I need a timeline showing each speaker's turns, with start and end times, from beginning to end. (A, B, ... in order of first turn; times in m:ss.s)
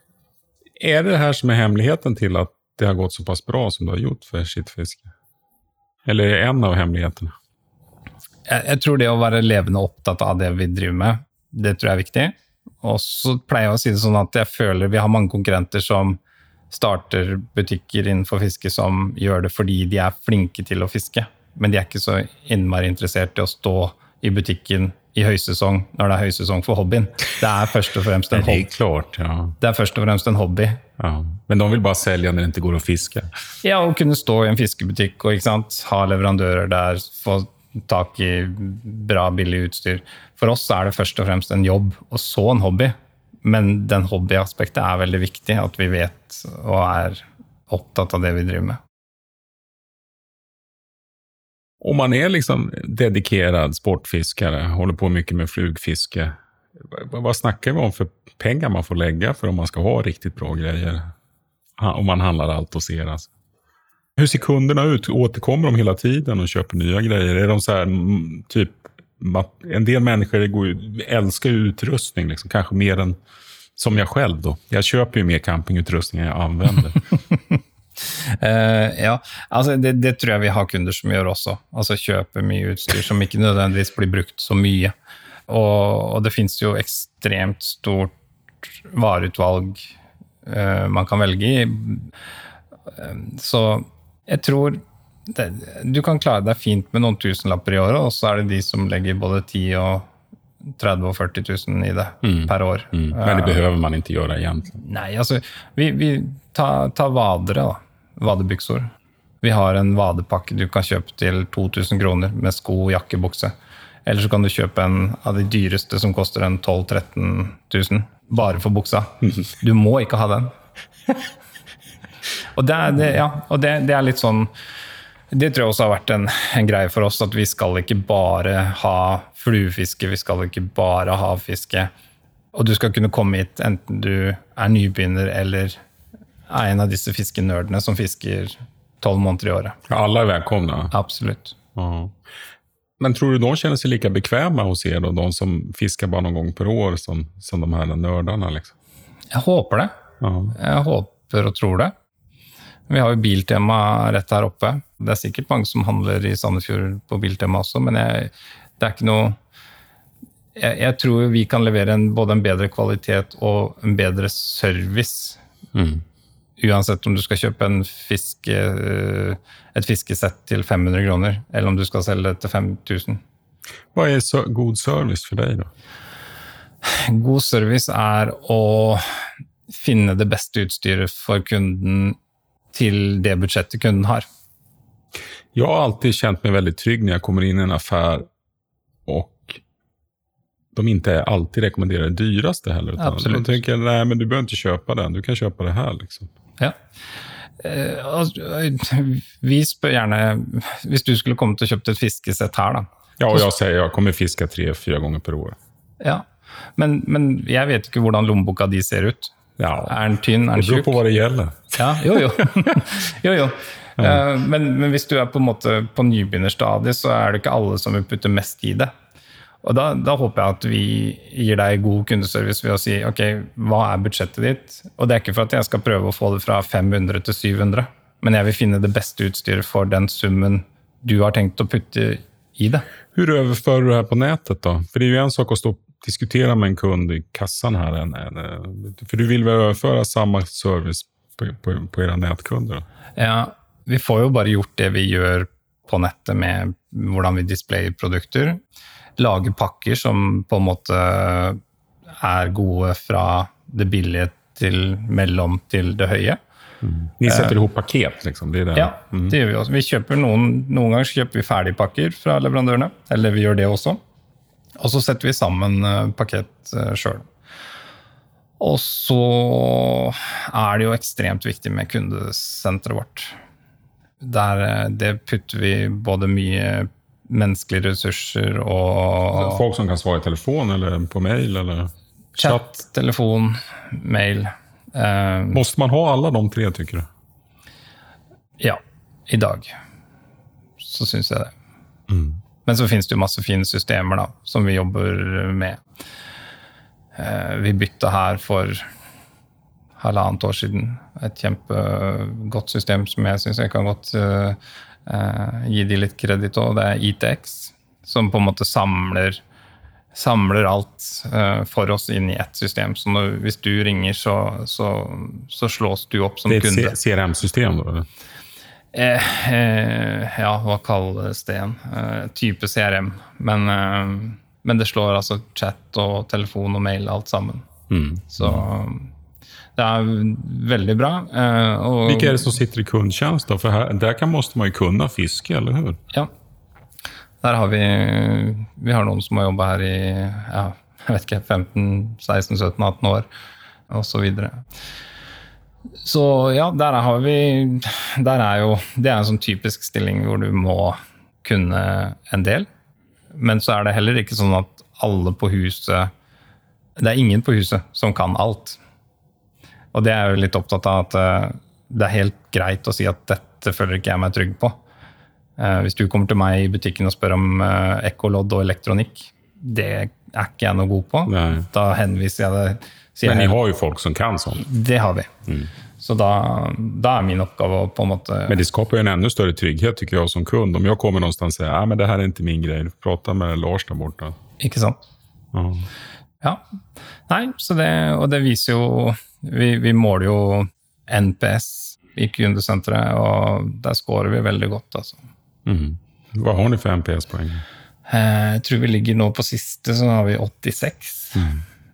0:00.8-0:05.1 A
0:06.0-0:07.3 A
0:08.5-0:16.2 B
0:16.7-0:28.7 B
0:28.3-0:29.6 A
0:29.6-0:30.8 B
0:31.0-0:33.3 A
0:33.6-0:48.8 B
0:51.8-1:01.1 A
1:01.8-1:03.3 A
1:04.2-1:13.2 A
1:13.8-1:17.0 A
1:18.2-1:24.9 B
1:25.5-1:28.1 B
1:28.8-1:29.9 B
1:30.4-1:32.1 B
1:32.9-1:40.1 B
1:40.8-1:43.6 B
1:42.2-1:44.8 A
1:44.8-1:48.9 B
1:49.4-1:53.5 B
1:54.0-2:00.5 B
2:02.6-2:04.5 B
2:05.3-2:11.9 B
2:12.5-2:15.8 B
2:16.5-2:19.8 B
2:19.9-2:20.9 A
2:20.9-2:21.6 B
2:21.8-2:22.2 A
2:23.0-2:28.7 A
2:29.3-2:29.9 B
2:30.2-2:30.6 A
2:30.6-2:31.9 B
2:32.9-2:39.4 B
2:40.6-2:45.4 B
2:45.7-2:46.0 A
2:46.6-2:53.2 B
2:53.9-2:55.7 A
2:56.8-2:59.1 B
2:59.7-3:02.2 B
3:02.7-3:04.3 B
3:05.5-3:08.3 A
3:09.1-3:09.6 A
3:10.8-3:16.3 A
3:13.0-3:13.6 B
3:17.6-3:23.5 B
3:23.2-3:25.6 A
3:26.8-3:29.3 B
3:29.6-3:30.0 A
3:29.9-3:31.0 B
3:30.6-3:32.7 A
3:31.8-3:38.9 B
3:39.6-3:52.9 B
3:53.1-4:02.8 A
4:03.2-4:08.6 B
4:09.2-4:11.6 B
4:12.2-4:16.4 B
4:16.8-4:19.4 A
4:17.3-4:17.6 B
4:18.8-4:24.0 B
4:24.8-4:27.2 B
4:28.6-4:33.4 B
4:34.2-4:39.6 B
4:39.3-4:42.7 A
4:42.4-4:45.6 B
4:45.5-4:47.1 A
4:48.6-4:49.7 B
4:50.8-4:51.5 B
4:52.1-4:52.4 A
4:52.6-4:55.8 B
4:57.2-4:58.8 B
5:00.0-5:09.4 B
5:10.1-5:17.0 B
5:16.5-5:18.1 A
5:18.9-5:27.7 B
5:27.9-5:28.6 A
5:28.3-5:29.1 B
5:29.8-5:32.5 B
5:32.0-5:36.0 A
5:37.4-5:43.3 B
5:43.9-5:44.6 B
5:46.0-5:52.7 B
5:53.4-5:56.1 B
5:57.0-5:58.8 B
5:59.9-6:04.8 B
6:05.6-6:13.6 B
6:11.3-6:11.7 A
6:13.2-6:14.6 A
6:14.6-6:15.3 B
6:16.0-6:18.6 B
6:18.5-6:24.4 A
6:24.6-6:25.0 B
6:25.5-6:25.9 A
6:27.3-6:35.2 B
6:35.6-6:37.6 A
6:38.1-6:41.5 B
6:41.4-6:41.6 A